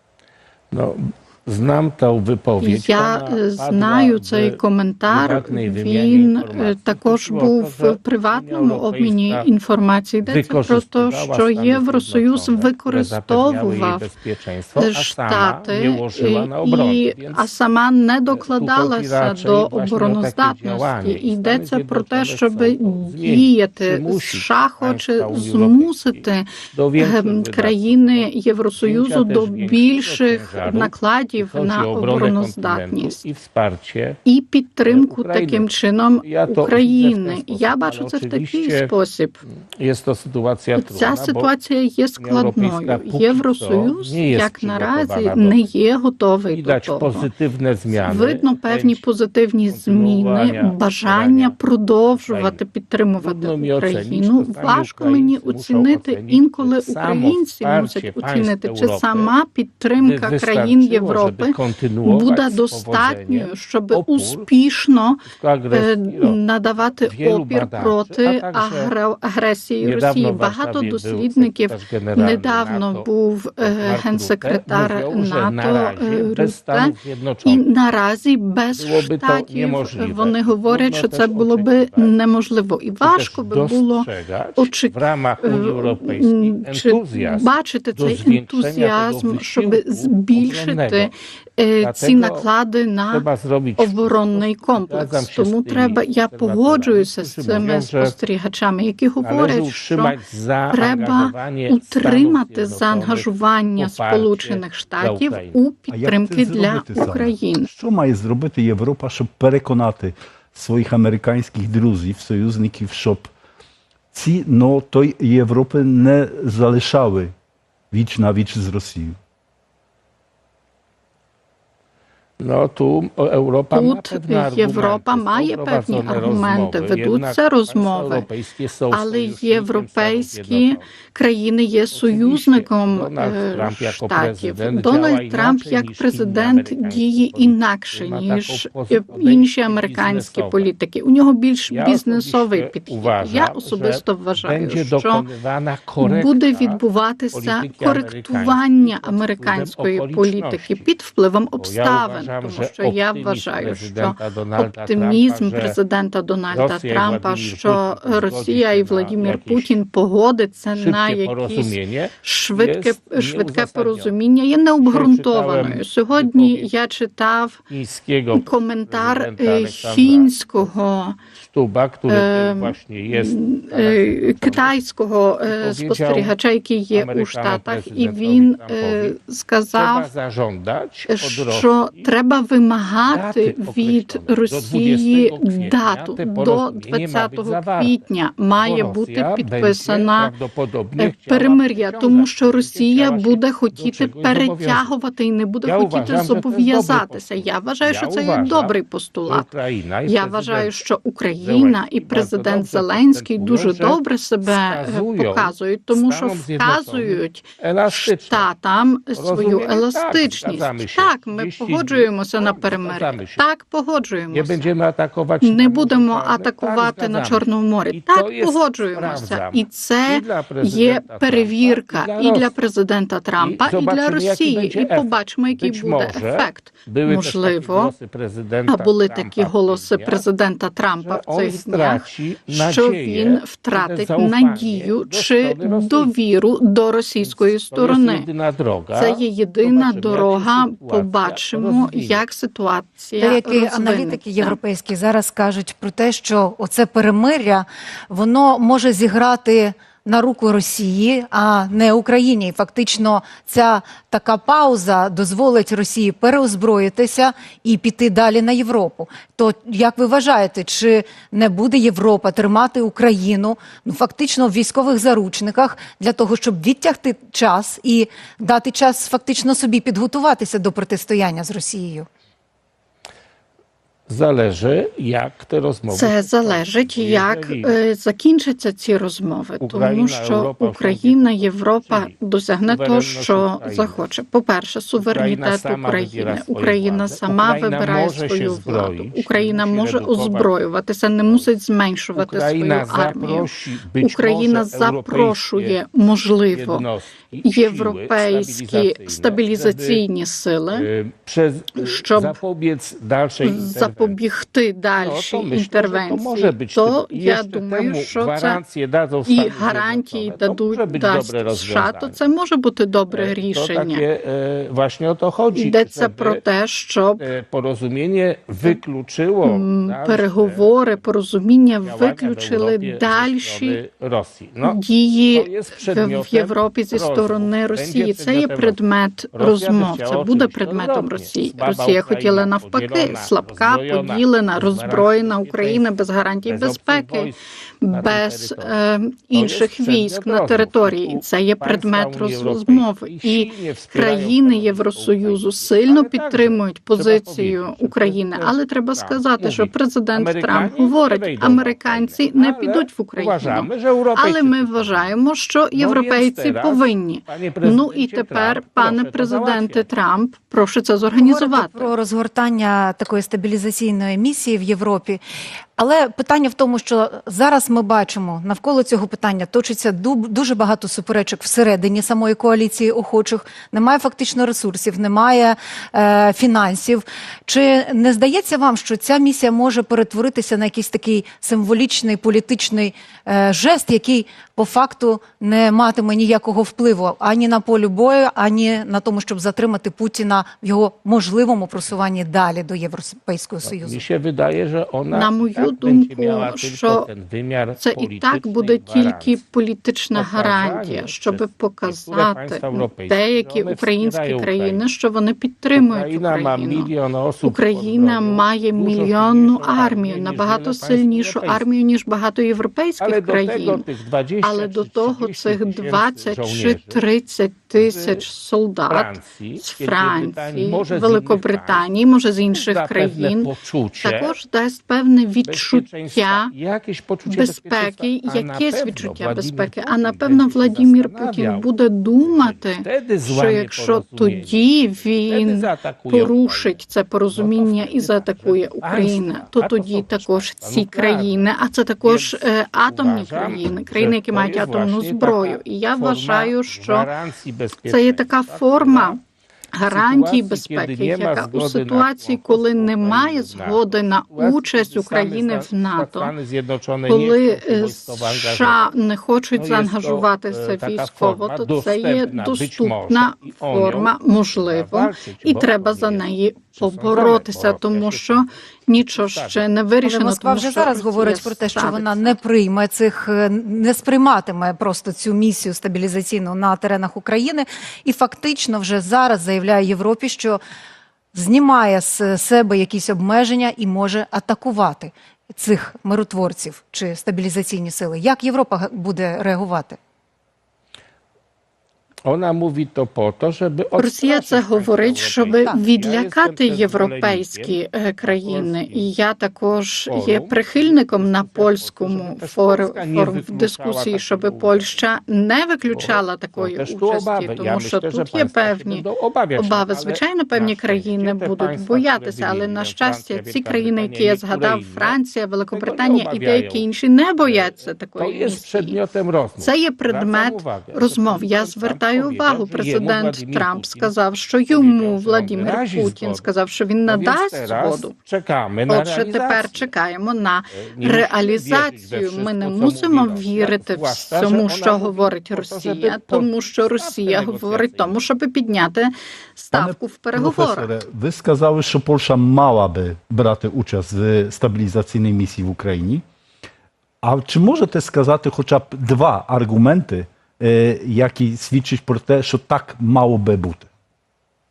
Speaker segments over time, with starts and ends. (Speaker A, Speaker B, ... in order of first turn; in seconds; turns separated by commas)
Speaker A: 0.7-9.5, Speaker B: 2.6-14.0, Speaker A: 10.3-17.4, Speaker B: 14.8-33.2, Speaker A: 18.3-34.2, Speaker B: 34.3-39.4, Speaker A: 34.9-35.7, Speaker A: 36.2-38.9, Speaker A: 39.5-41.5, Speaker B: 40.8-47.3, Speaker A: 42.2-45.7, Speaker A: 46.5-49.0, Speaker B: 48.0-76.9, Speaker A: 49.7-51.5, Speaker A: 52.1-52.6, Speaker A: 53.2-59.3, Speaker A: 60.0-64.5, Speaker A: 65.3-66.4, Speaker A: 67.0-68.9, Speaker A: 69.8-73.1, Speaker A: 73.6-77.6, Speaker B: 77.5-84.1, Speaker A: 78.7-82.1, Speaker A: 83.0-91.1, Speaker B: 84.6-93.3, Speaker A: 91.8-92.5, Speaker A: 93.1-98.2, Speaker B: 93.8-100.2, Speaker A: 99.2-105.6, Speaker B: 100.7-107.7, Speaker C: 105.9-113.3, Speaker C: 114.1-117.3, Speaker C: 117.9-119.2, Speaker A: 122.4-130.9, Speaker B: 123.8-128.3, Speaker B: 128.9-145.2, Speaker A: 131.9-140.7, Speaker A: 141.7-146.8, Speaker B: 146.0-167.6, Speaker A: 147.3-150.9, Speaker A: 151.6-155.8, Speaker A: 156.5-159.8, Speaker A: 160.8-164.1, Speaker A: 164.8-166.7, Speaker A: 167.7-170.7, Speaker B: 168.3-171.2, Speaker A: 171.4-174.7, Speaker B: 172.1-180.1, Speaker A: 175.5-176.3, Speaker A: 176.9-179.2, Speaker A: 179.8-182.1, Speaker B: 181.1-190.3, Speaker A: 183.1-188.1, Speaker A: 188.6-194.9, Speaker B: 191.0-199.4, Speaker A: 195.7-198.7, Speaker A: 199.3-200.8, Speaker B: 200.1-214.7, Speaker A: 201.4-208.5, Speaker A: 209.2-213.4, Speaker A: 214.3-222.5, Speaker B: 215.4-227.9, Speaker A: 223.4-230.2, Speaker B: 228.7-238.3, Speaker A: 231.0-236.1, Speaker A: 237.2-242.2, Speaker B: 239.0-244.6, Speaker D: 243.2-272.1, Speaker A: 274.1-277.7, Speaker B: 275.9-293.5, Speaker A: 279.6-282.1, Speaker A: 282.7-284.0, Speaker A: 285.0-290.5, Speaker A: 292.1-295.7, Speaker B: 294.0-296.9, Speaker A: 296.5-300.0, Speaker B: 297.5-300.9, Speaker A: 300.7-304.2, Speaker B: 301.8-302.4, Speaker B: 303.4-308.6, Speaker A: 305.0-312.2, Speaker B: 309.3-314.0, Speaker A: 313.1-316.4, Speaker B: 315.6-317.3, Speaker A: 317.2-321.0, Speaker B: 319.4-323.8, Speaker A: 321.8-324.8, Speaker B: 324.6-337.3, Speaker A: 325.3-328.8, Speaker A: 329.3-335.9, Speaker A: 336.4-338.8, Speaker B: 337.8-361.9, Speaker A: 339.3-355.1, Speaker A: 355.7-359.9, Speaker D: 361.1-365.2, Speaker D: 365.8-394.0, Speaker A: 393.6-399.4, Speaker B: 395.1-397.1, Speaker B: 397.8-406.9, Speaker A: 400.1-404.8, Speaker A: 405.8-411.6, Speaker B: 407.4-413.9, Speaker A: 413.0-417.0, Speaker B: 414.4-423.5, Speaker A: 417.8-418.2, Speaker A: 418.9-421.9, Speaker A: 422.5-424.4, Speaker B: 424.0-426.5, Speaker A: 425.4-431.7, Speaker B: 427.3-447.1, Speaker A: 432.2-434.7, Speaker A: 435.2-436.8, Speaker A: 437.3-441.4, Speaker A: 442.0-449.2, Speaker B: 447.9-449.2, Speaker B: 449.8-456.3, Speaker A: 449.9-458.9, Speaker B: 457.1-472.3, Speaker A: 459.6-469.7, Speaker D: 470.0-480.6, Speaker D: 481.3-490.0, Speaker A: 492.2-499.1, Speaker B: 494.0-509.0, Speaker A: 500.1-504.9, Speaker A: 505.9-515.2, Speaker B: 509.6-519.0, Speaker A: 515.7-516.9, Speaker A: 517.4-524.1, Speaker B: 519.6-528.1, Speaker A: 524.7-526.5, Speaker A: 527.1-529.9, Speaker B: 528.9-540.9, Speaker A: 530.7-538.2, Speaker C: 539.7-546.2, Speaker C: 547.2-553.9